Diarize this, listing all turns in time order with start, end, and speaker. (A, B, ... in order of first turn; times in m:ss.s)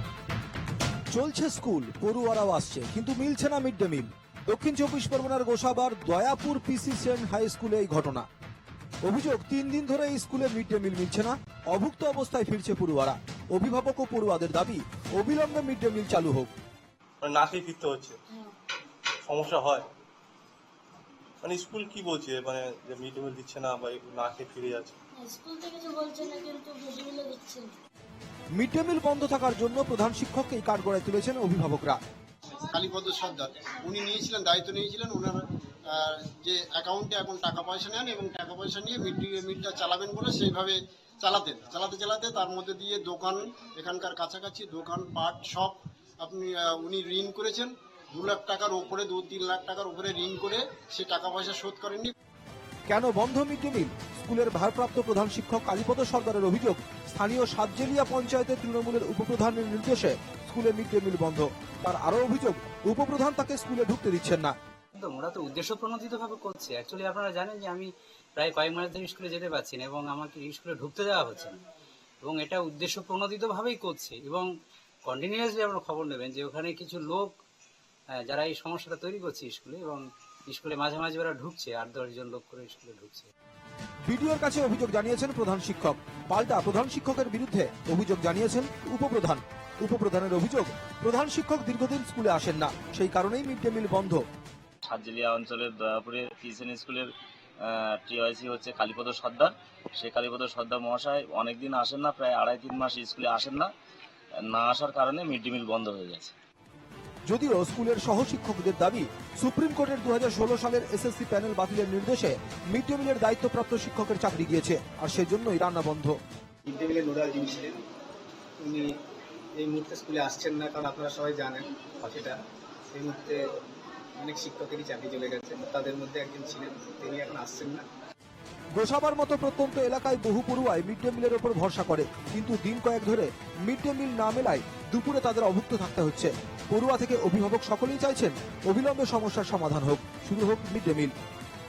0:01.1-0:08.3 A
0:09.0-0:16.5 A
0:17.3-0:18.1 B
0:19.3-0:19.8 B
0:21.5-0:24.9 B
0:25.1-0:27.7 C
0:28.6-0:32.0 A
0:32.6-0:52.1 D
0:52.9-1:04.5 A
1:05.0-1:11.6 E
1:12.2-1:14.5 E
1:15.1-1:17.4 E
1:18.1-1:23.3 E
1:24.1-1:34.2 A
1:34.8-1:37.1 F
1:37.6-1:43.7 F
1:44.5-1:46.3 F
1:47.3-1:56.2 A
1:56.7-1:57.8 G
1:58.6-1:58.9 G
1:59.6-2:02.4 G
2:02.9-2:03.4 G
2:04.2-2:07.9 G
2:08.8-2:21.1 A